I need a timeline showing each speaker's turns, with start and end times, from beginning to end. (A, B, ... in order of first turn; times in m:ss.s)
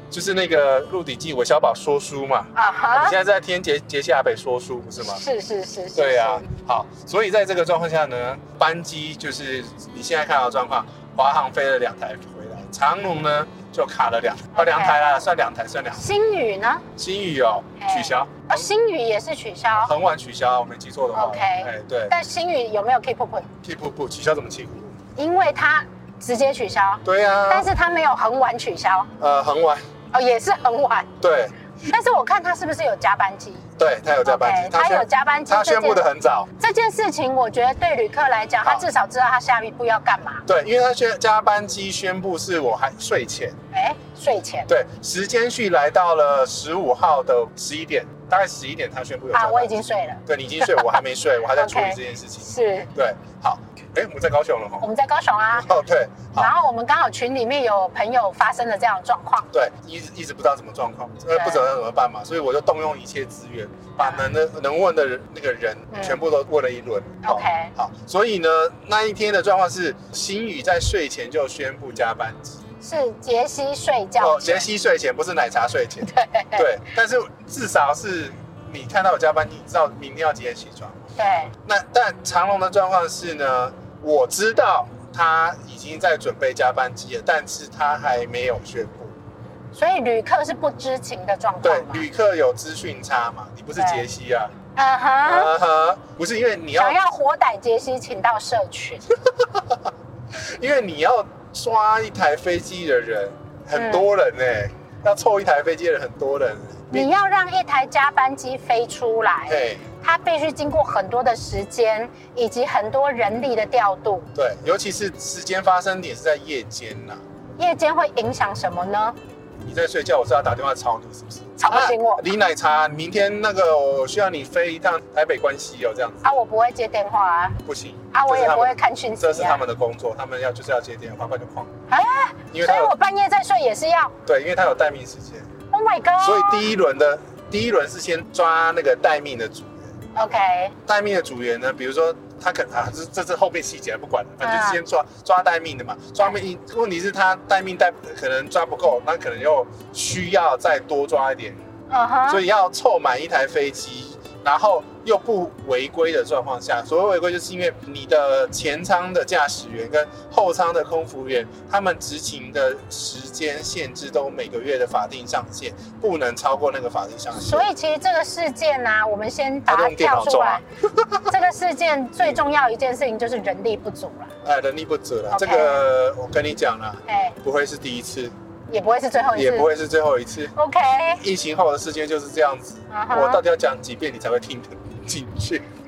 0:00.1-0:05.2 A
0:02.5-0:03.2 B
0:05.0-0:06.4 B
0:05.9-0:16.0 A
0:14.5-0:15.2 B
0:16.0-0:16.8 B
0:17.0-0:18.7 A
0:17.8-0:19.9 B
0:19.8-0:22.1 A
0:21.1-0:23.5 B
0:23.6-0:25.0 A
0:25.2-0:29.1 B
0:27.0-0:27.7 A
0:29.2-0:29.8 A
0:30.1-0:31.1 B
0:31.2-0:31.5 A
0:31.8-0:33.7 B
0:33.8-0:36.5 A
0:34.2-0:36.0 B
0:36.6-0:40.4 B
0:40.4-0:43.6 A
0:43.7-0:44.7 B
0:44.7-0:49.7 A
0:49.3-0:51.0 B
0:50.2-0:54.9 A
0:51.5-0:52.9 B
0:54.8-0:55.7 B
0:55.5-0:56.5 A
0:56.4-0:59.5 B
0:59.5-1:12.6 A
1:01.3-1:01.6 B
1:05.9-1:06.2 B
1:07.2-1:07.7 B
1:12.8-1:14.6 B
1:14.2-1:21.1 A
1:16.0-1:16.7 B
1:21.2-1:21.5 B
1:21.6-1:29.1 A
1:29.7-1:32.1 B
1:31.6-1:34.5 A
1:33.8-1:34.0 B
1:34.7-1:35.5 B
1:35.2-1:37.0 A
1:36.8-1:39.0 B
1:39.4-1:39.8 A
1:40.3-1:47.1 A
1:43.7-1:44.1 B
1:46.9-1:54.3 B
1:49.5-1:49.8 A
1:54.3-1:57.2 A
1:57.6-1:59.2 B
1:59.6-2:06.3 A
2:01.6-2:02.2 B
2:06.2-2:07.6 B
2:07.6-2:11.7 A
2:08.1-2:09.6 B
2:11.9-2:14.1 B
2:12.5-2:12.9 A
2:14.2-2:15.5 A
2:15.7-2:16.7 B
2:16.2-2:19.9 A
2:20.1-2:20.8 B
2:20.8-2:31.6 A
2:24.4-2:24.8 B
2:31.9-2:32.4 B
2:32.3-2:47.7 A
2:47.3-2:50.6 B
2:49.7-2:51.3 A
2:51.3-2:54.3 B
2:54.4-2:58.3 A
2:55.3-2:55.8 B
2:57.1-2:57.4 B
2:58.7-2:59.7 B
2:59.3-3:00.5 A
3:00.5-3:01.2 B
3:01.2-3:05.6 A
3:02.9-3:03.4 B